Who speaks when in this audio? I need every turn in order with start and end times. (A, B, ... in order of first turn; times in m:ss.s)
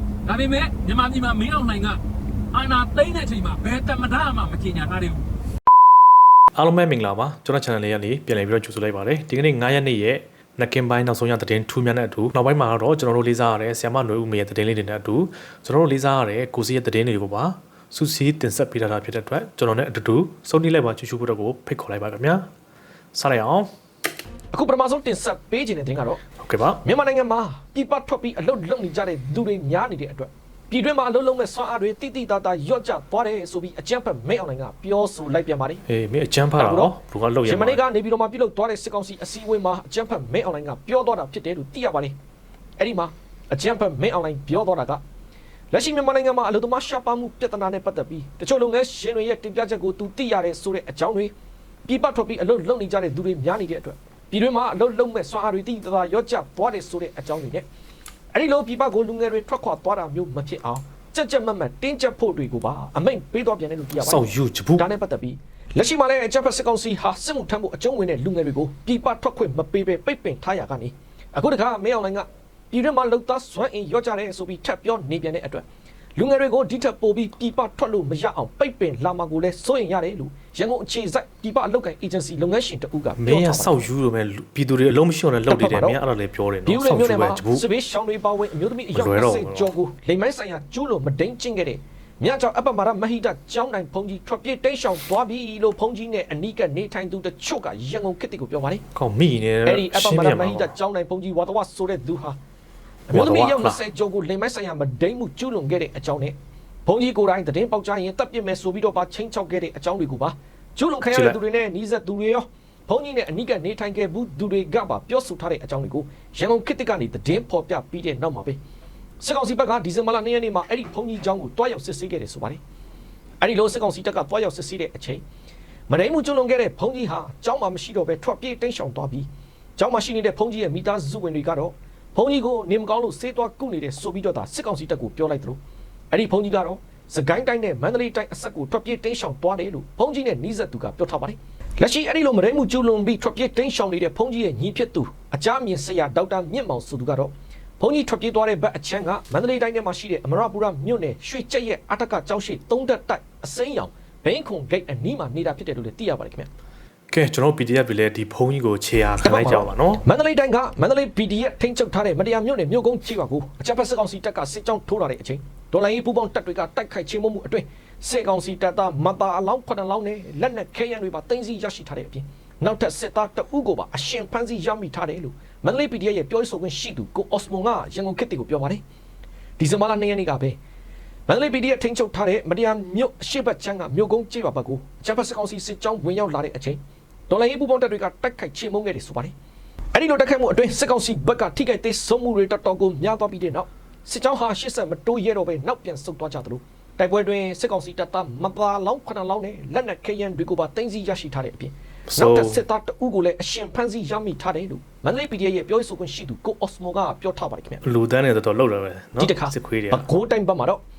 0:00.2-0:02.0 A
0:02.5-0:05.2 A
0:06.5-0:22.5 B
0:23.1-0:23.7 B
0:24.5-0:26.2 C
0:26.4-0:26.8 B
0:26.8-0:35.8 C
0:35.9-0:37.8 B
0:36.5-0:42.2 C
0:42.8-0:45.0 C
0:45.7-0:51.3 C
0:51.8-0:57.7 C
0:58.3-1:23.8 C
1:04.0-1:04.9 B
1:23.2-1:27.6 B
1:25.5-1:26.0 C
1:26.6-1:38.8 C
1:28.9-1:29.7 B
1:38.9-1:40.7 B
1:39.6-1:42.4 C
1:43.1-1:58.6 C
1:43.1-1:43.8 B
1:59.2-2:02.6 C
2:03.4-2:05.2 C
2:05.9-2:15.6 C
2:16.1-2:36.5 C
2:37.1-2:40.0 B
2:39.2-2:58.8 C
2:59.6-3:00.6 C
3:01.3-3:09.3 C
3:09.9-3:27.8 C
3:22.1-3:22.6 B
3:27.8-3:30.1 B
3:29.2-3:30.8 C